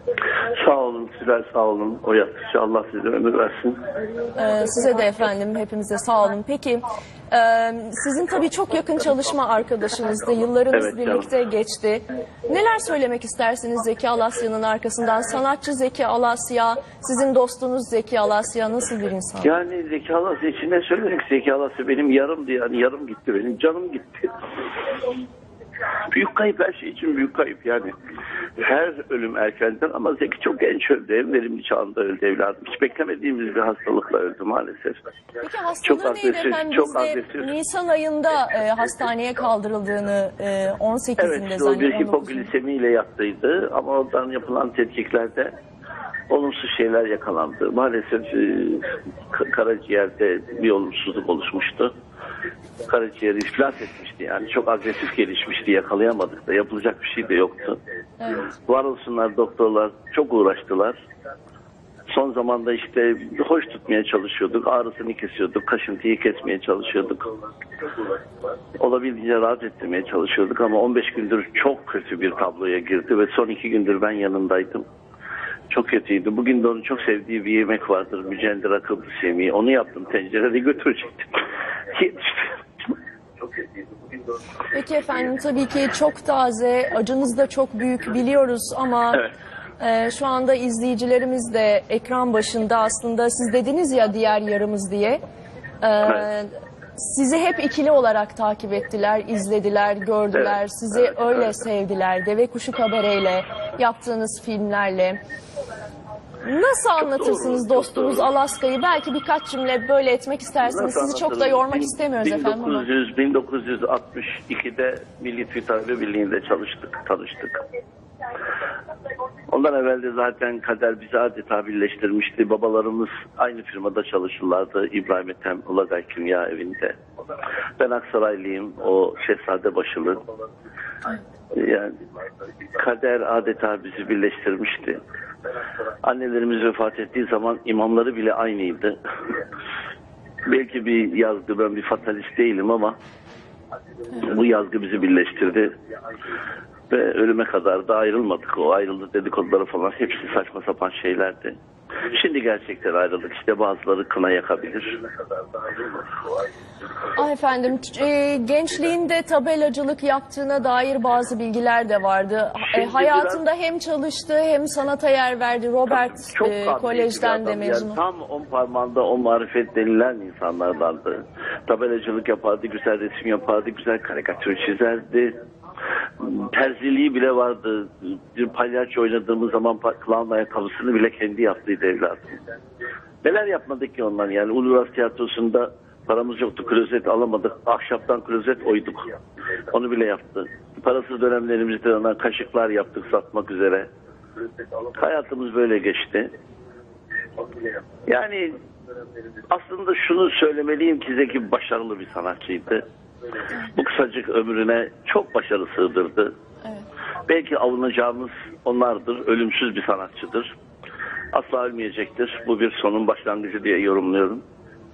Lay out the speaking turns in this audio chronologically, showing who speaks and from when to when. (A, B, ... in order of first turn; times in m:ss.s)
0:00.5-0:03.8 A
0:04.3-0:19.5 B
0:10.7-0:11.3 A
0:19.4-0:24.3 A
0:26.1-0:27.9 A
0:28.6-0:35.0 A
0:35.4-0:42.5 B
0:35.8-0:37.5 A
0:41.2-0:45.5 A
0:46.3-0:51.9 A
0:52.8-0:57.8 A
0:58.2-0:58.5 B
0:58.4-1:01.0 A
1:02.1-1:07.3 A
1:08.8-1:14.8 A
1:15.7-1:21.4 A
1:21.9-1:22.6 A
1:24.7-1:29.2 B
1:29.8-1:35.2 B
1:35.8-1:45.2 B
1:40.3-1:41.5 A
1:46.4-1:52.9 B
1:47.0-1:48.3 A
1:50.6-1:57.6 A
1:59.5-2:07.0 A
2:07.8-2:10.2 A
2:11.5-2:11.9 A
2:12.8-2:15.0 A
2:16.0-2:19.0 A
2:20.4-2:23.0 A
2:24.1-2:25.7 A
2:26.9-2:31.6 A
2:32.1-2:36.0 A
2:37.1-2:48.0 B
2:42.6-2:43.4 A
2:45.9-2:55.4 A
2:56.2-3:02.4 A
3:03.2-3:09.1 A
3:09.7-3:13.9 A
3:14.9-3:16.3 A
3:18.1-3:18.6 A
3:19.5-3:22.8 A
3:23.6-3:26.3 A
3:27.3-3:30.5 A
3:31.3-3:34.4 A